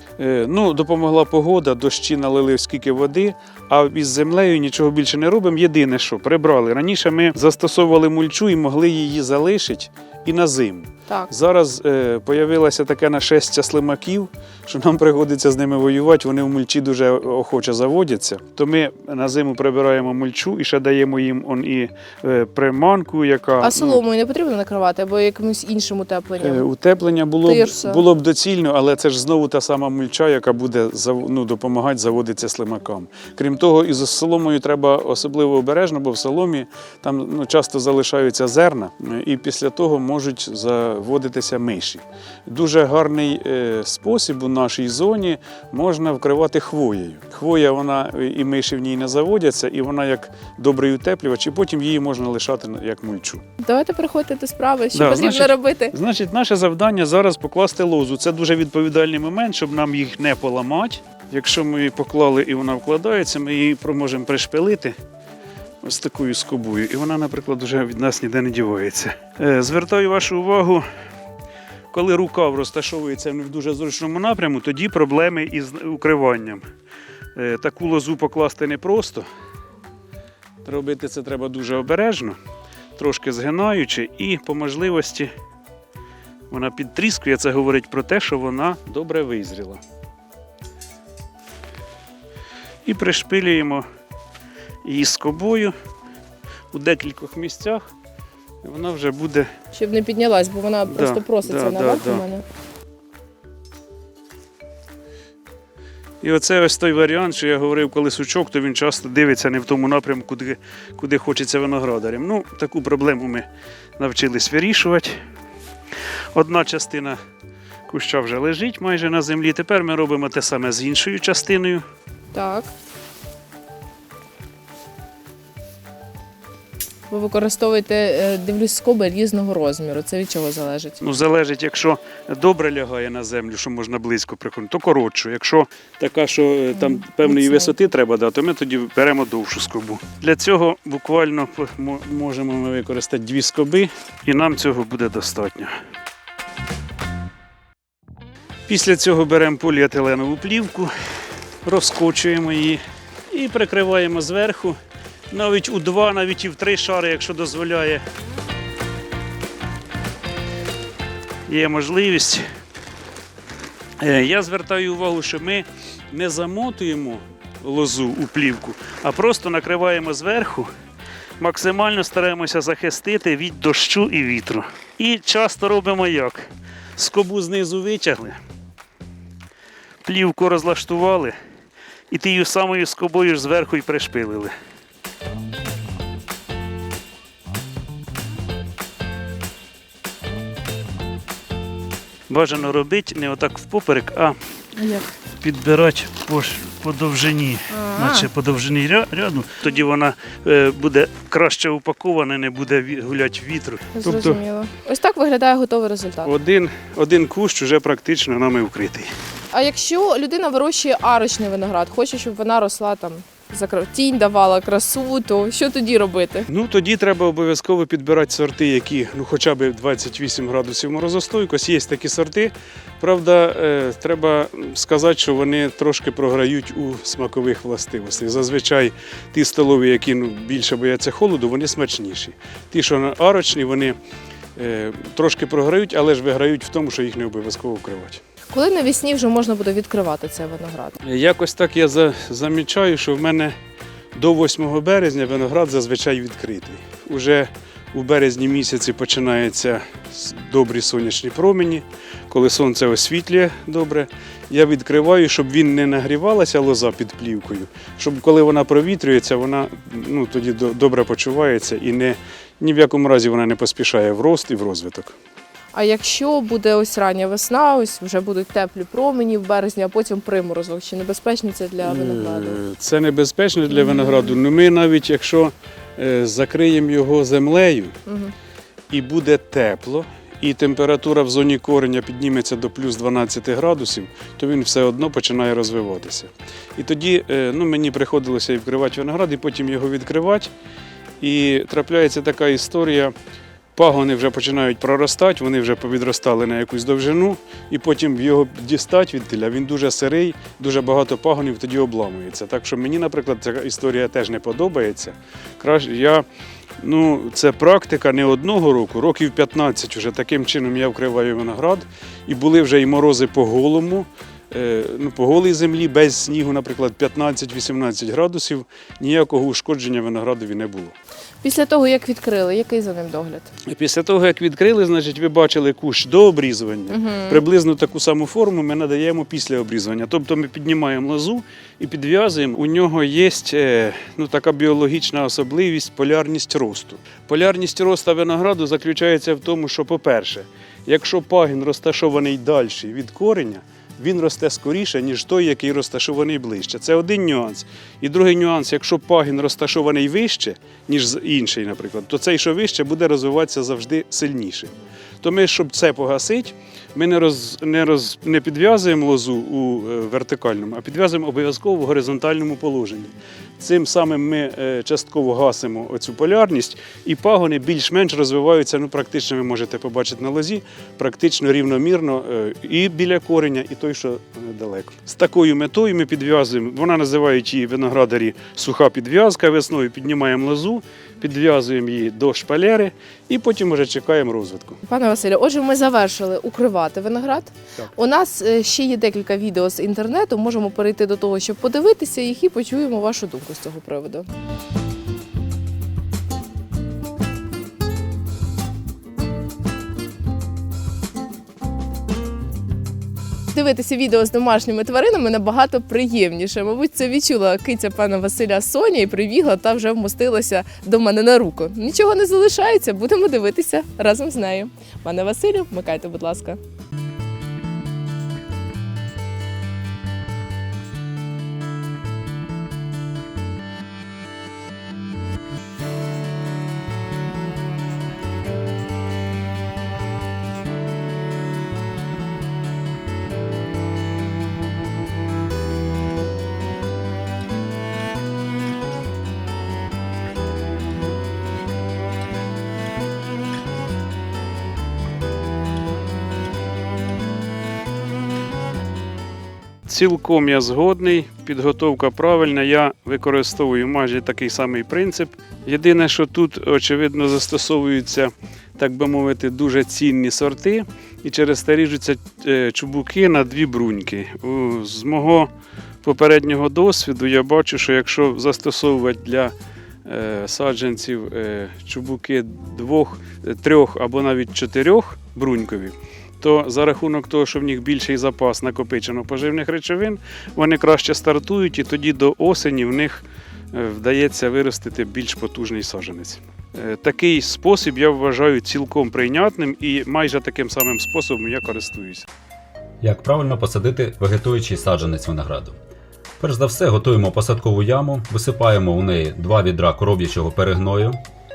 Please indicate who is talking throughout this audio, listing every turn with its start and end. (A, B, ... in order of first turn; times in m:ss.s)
0:00.2-0:24.0 A
0:23.6-0:26.6 B
0:26.4-0:53.4 A
0:27.4-0:28.0 B
0:53.6-0:55.9 B
0:54.9-1:05.0 A
1:05.8-1:10.8 A
1:11.9-1:16.6 A
1:17.4-1:19.3 A
1:20.6-1:22.4 A
1:23.0-1:25.3 A
1:26.5-1:29.8 A
1:32.8-1:33.8 A
1:34.8-1:35.7 A
1:36.7-1:37.8 A
1:38.6-1:39.5 A
1:39.7-1:42.4 B
1:40.9-1:42.2 A
1:46.2-1:53.4 A
1:54.0-1:55.2 A
1:56.3-1:57.2 A
1:57.9-2:01.8 A
2:02.3-2:02.7 B
2:07.1-2:11.0 B
2:11.0-2:25.7 A
2:16.7-2:17.7 B
2:28.7-2:30.9 A
2:31.6-2:34.8 A
2:35.3-2:38.0 A
2:41.5-2:42.4 A
2:44.0-2:50.7 A
2:51.4-2:56.4 A
2:57.0-2:58.4 A
3:00.0-3:01.3 A
3:02.1-3:04.5 A
3:12.3-3:14.4 A
3:14.8-3:15.0 B
3:15.4-3:24.4 A
3:17.7-3:18.3 B
3:23.9-3:26.3 B
3:26.2-3:29.1 A
3:29.5-3:36.5 B
3:36.5-3:54.0 A
3:54.6-3:58.2 A
3:58.5-4:01.0 B
4:01.0-4:03.5 A
4:04.1-4:25.1 A
4:25.7-4:32.6 B
4:31.8-4:37.9 A
4:33.8-4:34.3 B
4:38.0-4:38.3 B
4:38.9-4:50.5 A
4:51.2-4:53.1 A
4:53.7-5:06.2 A
5:06.8-5:20.9 A
5:21.4-5:23.5 B
5:23.6-6:24.8 A
5:26.9-5:27.4 B
6:24.8-6:34.3 B
6:43.5-6:56.6 B
7:29.8-7:45.5 A
7:46.0-7:49.5 A
7:50.0-8:12.2 A
8:13.0-8:15.8 C
8:16.4-8:21.2 C